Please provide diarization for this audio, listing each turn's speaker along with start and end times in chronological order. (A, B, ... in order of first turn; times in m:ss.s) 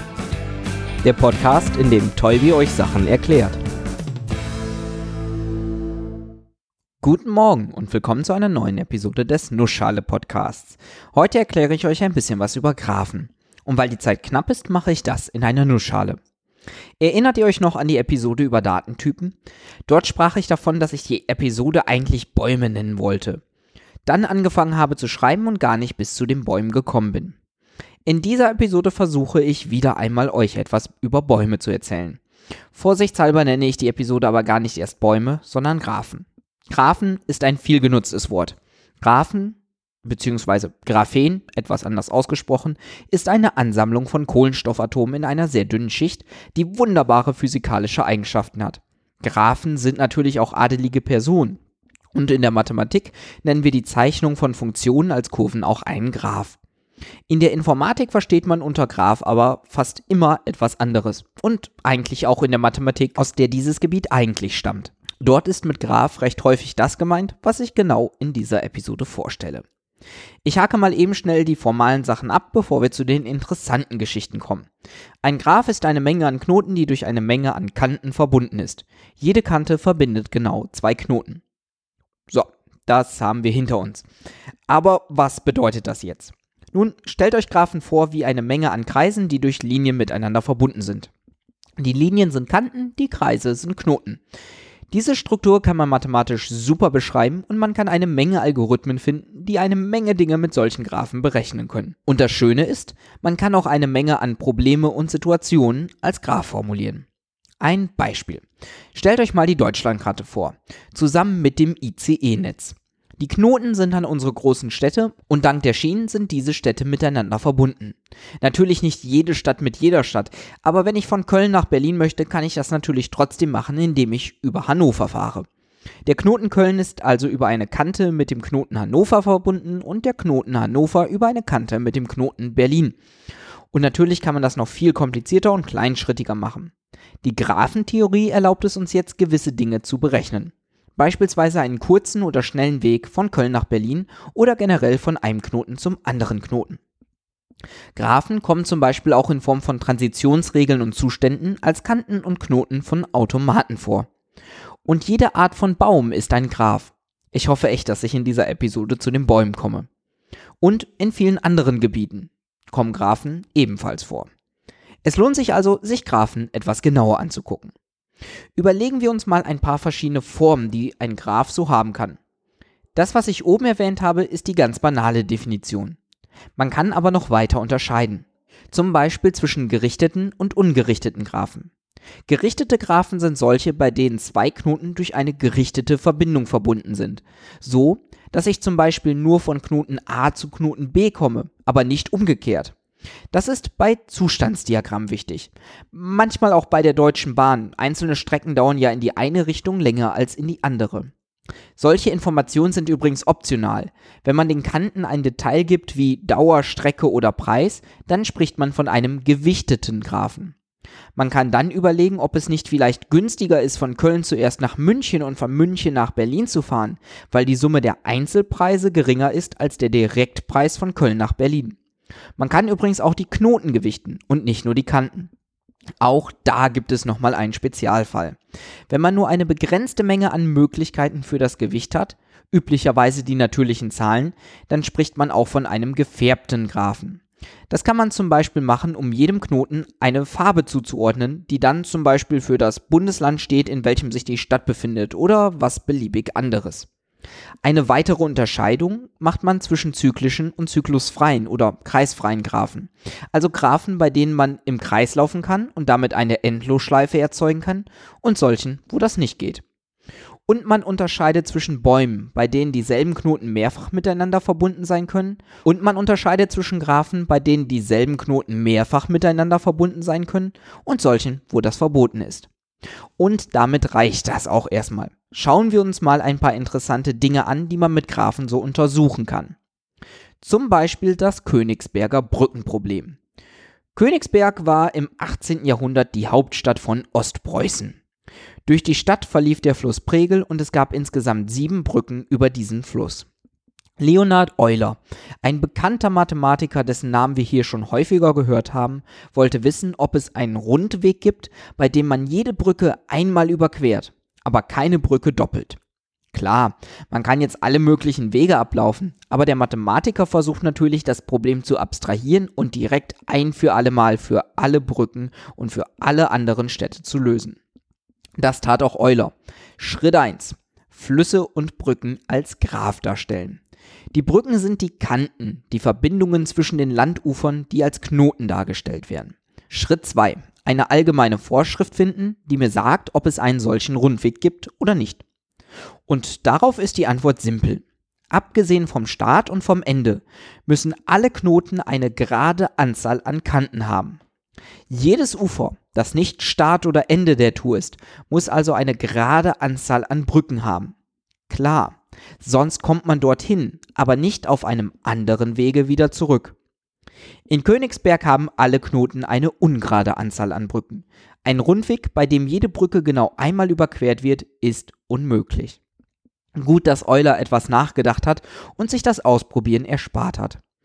0:01.0-0:03.6 A
0:07.0-0:16.2 A
0:17.0-0:23.4 A
0:24.1-0:27.4 A
0:28.1-0:32.2 A
0:32.7-0:51.6 A
0:52.1-0:56.6 A
0:57.3-1:09.6 A
1:10.4-1:14.7 A
1:15.2-1:21.4 A
1:22.3-1:24.1 A
1:24.7-1:31.1 A
1:31.8-1:34.2 A
1:34.9-1:47.1 A
1:47.6-2:05.5 A
2:06.1-2:13.0 A
2:13.7-2:16.7 A
2:17.2-2:26.8 A
2:28.0-2:34.1 A
2:34.9-2:39.9 A
2:40.6-2:44.3 A
2:45.0-2:47.7 A
2:48.6-2:52.2 A
2:53.0-2:56.0 A
2:56.6-3:01.7 A
3:02.3-3:12.8 A
3:13.3-3:21.1 A
3:21.8-3:30.6 A
3:31.2-3:41.8 A
3:42.4-3:45.3 A
3:46.0-3:48.4 A
3:48.9-4:06.9 A
4:07.6-4:19.6 A
4:20.5-4:32.5 A
4:33.2-4:39.6 A
4:40.4-4:43.2 A
4:44.0-4:48.0 A
4:48.7-4:53.3 A
4:54.0-5:05.8 A
5:06.3-5:17.6 A
5:18.4-5:23.6 A
5:24.1-5:35.2 A
5:36.1-5:44.2 A
5:44.9-5:50.9 A
5:51.5-5:56.6 A
5:57.5-6:05.8 A
6:06.6-6:10.6 A